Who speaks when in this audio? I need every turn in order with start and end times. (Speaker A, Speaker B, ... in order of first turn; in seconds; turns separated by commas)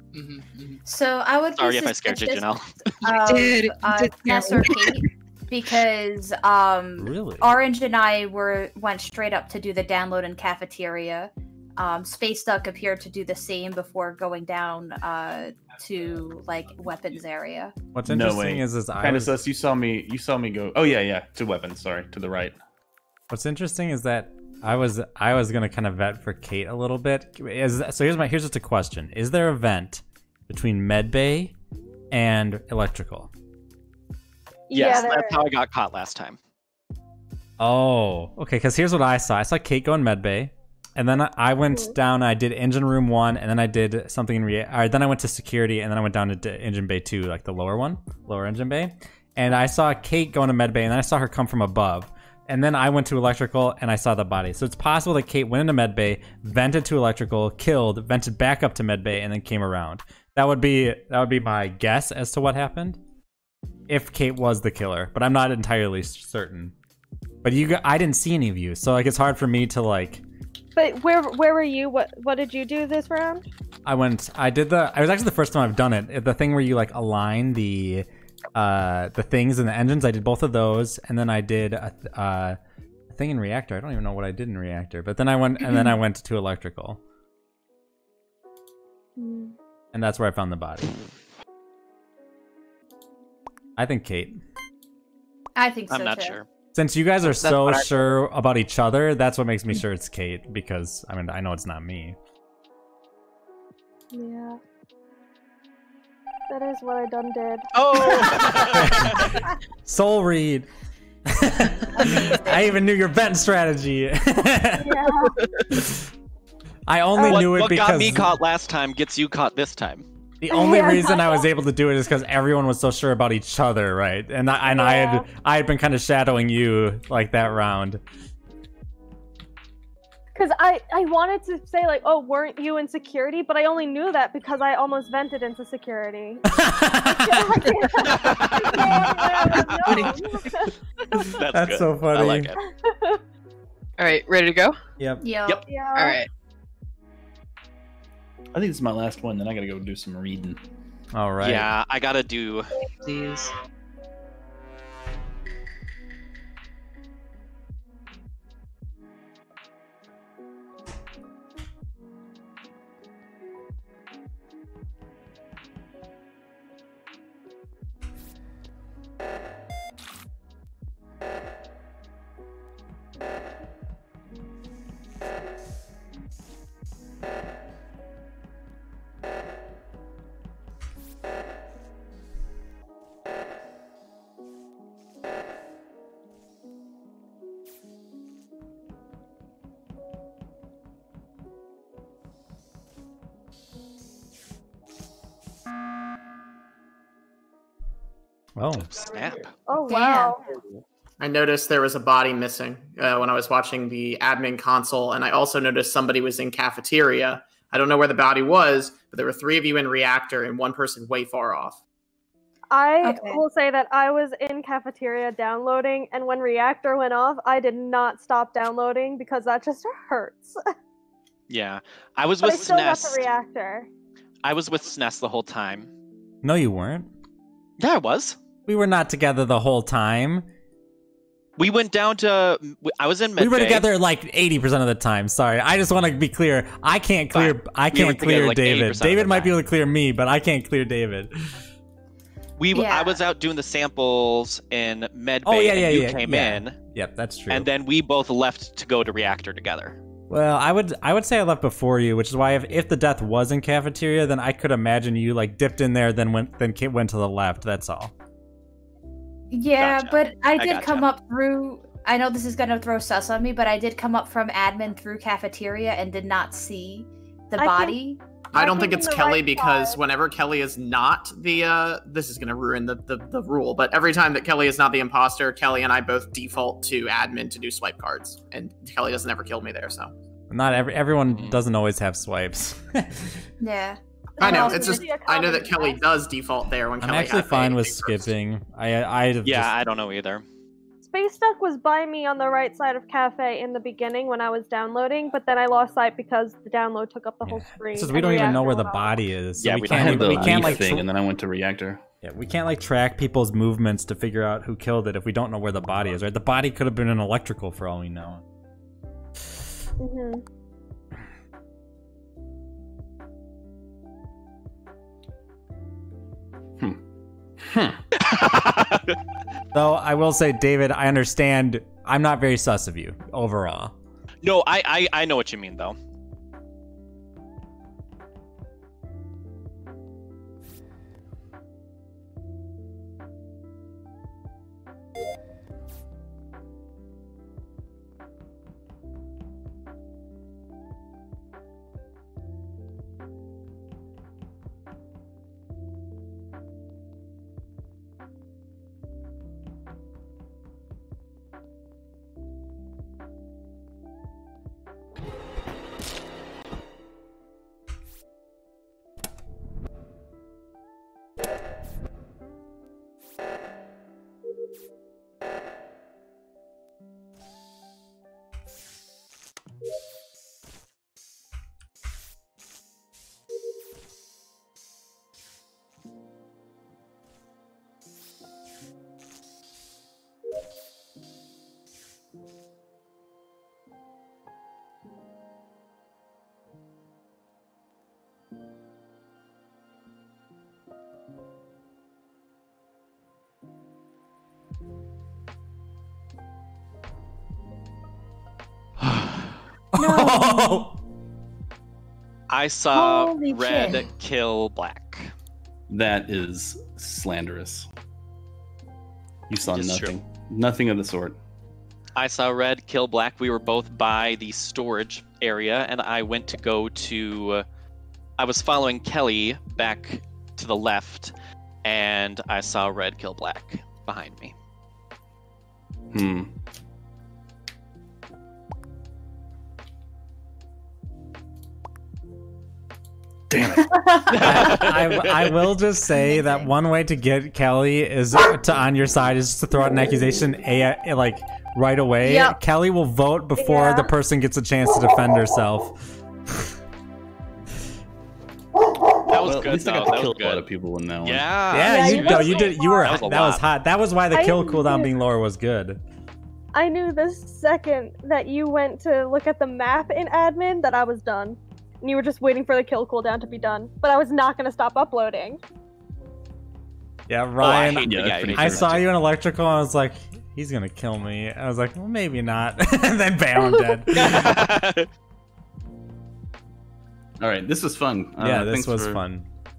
Speaker A: 0.1-0.8, Speaker B: 0.9-2.5, Speaker C: 1.6-2.7, Speaker B: 3.0-17.8, Speaker A: 3.0-5.0, Speaker D: 7.0-7.5, Speaker D: 17.9-19.4, Speaker E: 18.1-22.6, Speaker D: 23.3-31.6, Speaker D: 32.1-33.3, Speaker F: 34.7-35.5, Speaker C: 34.7-36.4, Speaker B: 34.9-35.1, Speaker D: 37.6-63.0, Speaker F: 41.7-42.0, Speaker D: 63.9-66.7, Speaker D: 67.4-70.2, Speaker F: 70.8-73.5, Speaker D: 73.8-82.6, Speaker D: 83.1-87.0, Speaker F: 89.2-89.6, Speaker D: 89.9-91.0, Speaker D: 93.8-94.4, Speaker B: 95.6-96.4, Speaker C: 95.9-96.5, Speaker D: 96.7-102.2, Speaker A: 97.3-98.2, Speaker F: 104.1-104.6, Speaker F: 106.5-108.8, Speaker C: 107.7-109.3, Speaker D: 108.7-110.7, Speaker D: 111.3-115.1, Speaker B: 112.3-112.6, Speaker F: 114.8-115.3, Speaker D: 115.7-116.1, Speaker D: 116.9-118.3, Speaker F: 117.2-117.5, Speaker C: 117.2-120.1, Speaker D: 120.4-128.0, Speaker F: 120.5-121.5, Speaker F: 124.6-125.3, Speaker F: 130.3-136.4, Speaker D: 136.5-137.7, Speaker F: 137.1-141.3, Speaker C: 138.1-138.9, Speaker A: 138.7-140.2, Speaker C: 139.5-140.1, Speaker C: 141.3-142.6, Speaker D: 141.5-142.5, Speaker F: 142.7-143.2, Speaker A: 144.0-144.8, Speaker B: 145.2-145.6, Speaker F: 145.7-146.2, Speaker A: 146.0-146.3, Speaker E: 148.5-150.6, Speaker D: 151.1-151.7, Speaker C: 151.4-152.7, Speaker A: 152.8-153.5, Speaker D: 198.6-199.0, Speaker C: 198.8-199.6, Speaker F: 199.6-200.6, Speaker B: 199.9-200.3, Speaker G: 201.2-211.8, Speaker F: 212.7-220.6, Speaker B: 213.0-213.4, Speaker C: 221.5-223.2, Speaker F: 222.4-223.9, Speaker C: 224.4-225.9, Speaker D: 226.4-227.1, Speaker C: 227.8-228.4, Speaker D: 228.7-230.5, Speaker C: 231.6-233.9, Speaker D: 233.4-241.5, Speaker C: 237.3-239.5, Speaker C: 242.6-246.8, Speaker B: 242.7-243.2, Speaker D: 245.5-247.7, Speaker C: 247.5-250.0, Speaker D: 250.3-258.1, Speaker B: 259.5-268.2, Speaker C: 259.8-261.1, Speaker F: 267.6-268.0, Speaker G: 268.5-280.1, Speaker F: 268.5-270.0, Speaker D: 280.5-283.4, Speaker C: 281.3-281.6, Speaker B: 283.6-285.1, Speaker F: 284.4-286.0, Speaker G: 284.4-288.3, Speaker D: 287.0-289.7, Speaker C: 289.4-290.4, Speaker F: 291.0-299.2, Speaker D: 297.4-301.1, Speaker C: 299.6-300.9, Speaker E: 299.9-302.0, Speaker D: 302.2-308.4, Speaker F: 310.0-310.4, Speaker E: 317.6-318.0, Speaker C: 318.2-319.2, Speaker D: 319.7-323.9, Speaker C: 324.4-326.0, Speaker D: 399.9-401.0, Speaker B: 400.0-400.9, Speaker C: 402.5-405.3, Speaker B: 402.9-404.0, Speaker E: 405.9-407.9, Speaker E: 409.5-411.4, Speaker C: 409.6-410.1, Speaker C: 412.2-417.7, Speaker C: 418.4-424.6, Speaker E: 426.1-426.5, Speaker E: 433.5-433.9, Speaker B: 433.8-434.9, Speaker C: 434.3-435.5, Speaker D: 434.4-446.0, Speaker B: 436.1-436.7, Speaker B: 442.2-442.6, Speaker F: 443.6-444.1, Speaker C: 449.3-450.6, Speaker E: 449.4-451.6, Speaker C: 451.2-453.7, Speaker D: 451.7-456.0, Speaker F: 451.8-453.2, Speaker F: 454.3-455.1, Speaker F: 456.8-465.6, Speaker D: 467.3-474.6, Speaker C: 467.6-469.1, Speaker E: 468.1-469.0, Speaker C: 474.1-475.1, Speaker E: 477.4-479.2, Speaker D: 478.4-479.5